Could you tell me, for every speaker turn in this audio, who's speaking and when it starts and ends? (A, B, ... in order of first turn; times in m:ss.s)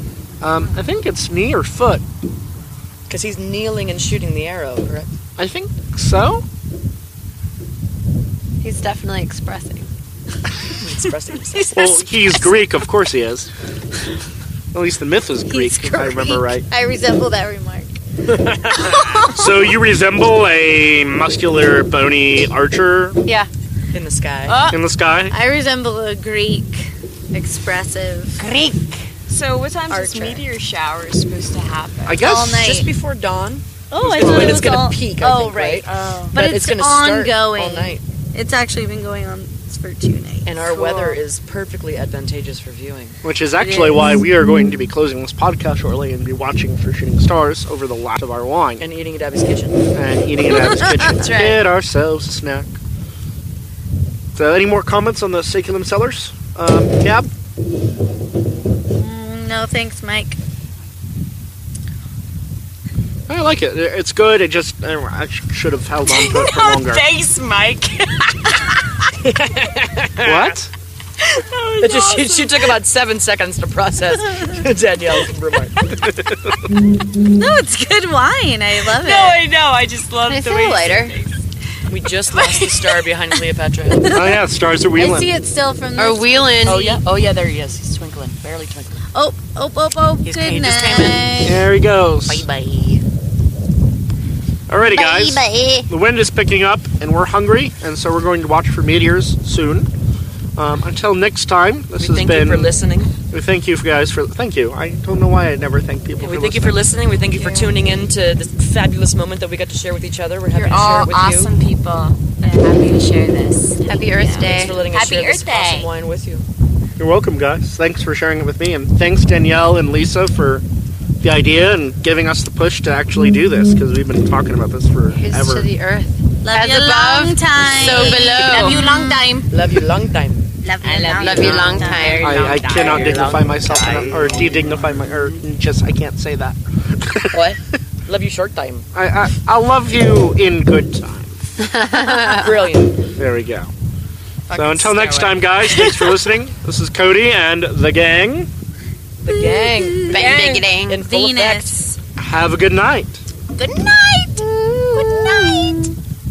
0:00.4-0:02.0 A
0:03.1-0:05.1 B
0:05.4-0:06.4 A
0:08.6-0:09.9 C
0:10.8-0:11.8 B
0:11.7-0:13.5 A
0:14.7-0:16.7 A
0:15.5-0:18.0 D
0:18.3-0:19.1 B
0:18.7-0:19.4 D
0:19.0-0:23.2 A
0:23.9-0:24.6 B
0:24.5-0:24.8 D
0:24.7-0:25.3 A
0:25.3-0:28.4 D
0:29.3-0:32.2 E
0:29.9-0:30.4 D
0:32.1-0:32.8 A
0:32.2-0:32.9 D
0:32.5-0:38.0 B
0:33.9-0:40.7 D
0:34.2-0:34.5 A
0:35.8-0:36.4 E
0:40.4-0:43.2 B
0:40.6-0:41.2 E
0:43.2-0:48.8 A
0:43.6-0:44.2 E
0:48.8-0:49.8 B
0:49.9-0:52.7 A
0:50.6-0:51.3 D
0:54.4-0:57.3 A
0:58.9-1:00.4 D
1:03.3-1:07.0 A
1:06.0-1:08.8 E
1:09.2-1:10.6 B
1:10.2-1:10.7 A
1:11.2-1:12.8 E
1:11.8-1:15.9 B
1:16.0-1:16.5 A
1:17.3-1:19.4 D
1:18.9-1:21.4 E
1:20.3-1:21.2 C
1:21.9-1:24.1 B
1:22.3-1:23.4 E
1:23.9-1:24.4 D
1:24.1-1:25.3 A
1:25.0-1:27.0 D
1:26.0-1:27.0 C
1:26.7-1:29.0 B
1:29.1-1:31.6 D
1:30.2-1:31.2 B
1:31.4-1:32.5 A
1:32.3-1:33.0 B
1:34.7-1:39.9 A
1:34.9-1:35.9 D
1:40.6-1:42.8 A
1:42.0-1:43.1 B
1:43.3-1:46.9 A
1:46.2-1:51.5 B
1:47.1-1:47.8 E
1:50.5-1:55.9 E
1:53.8-1:54.9 C
1:54.4-1:56.4 B
1:57.0-2:00.6 A
2:01.2-2:05.7 A
2:05.1-2:08.8 C
2:06.4-2:09.4 D
2:07.7-2:09.5 E
2:09.5-2:10.5 B
2:10.6-2:12.4 D
2:10.8-2:13.4 E
2:11.2-2:13.4 C
2:12.2-2:17.5 A
2:12.8-2:14.8 B
2:17.3-2:17.6 C
2:18.1-2:18.9 B
2:18.9-2:21.6 A
2:21.6-2:22.7 C
2:22.3-2:23.0 B
2:23.2-2:23.7 A
2:24.5-2:26.2 E
2:24.5-2:28.5 A
2:29.2-2:31.8 B
2:29.3-2:32.0 D
2:30.1-2:30.7 E
2:30.1-2:31.0 C
2:32.2-2:33.2 A
2:33.6-2:35.9 D
2:35.0-2:35.8 E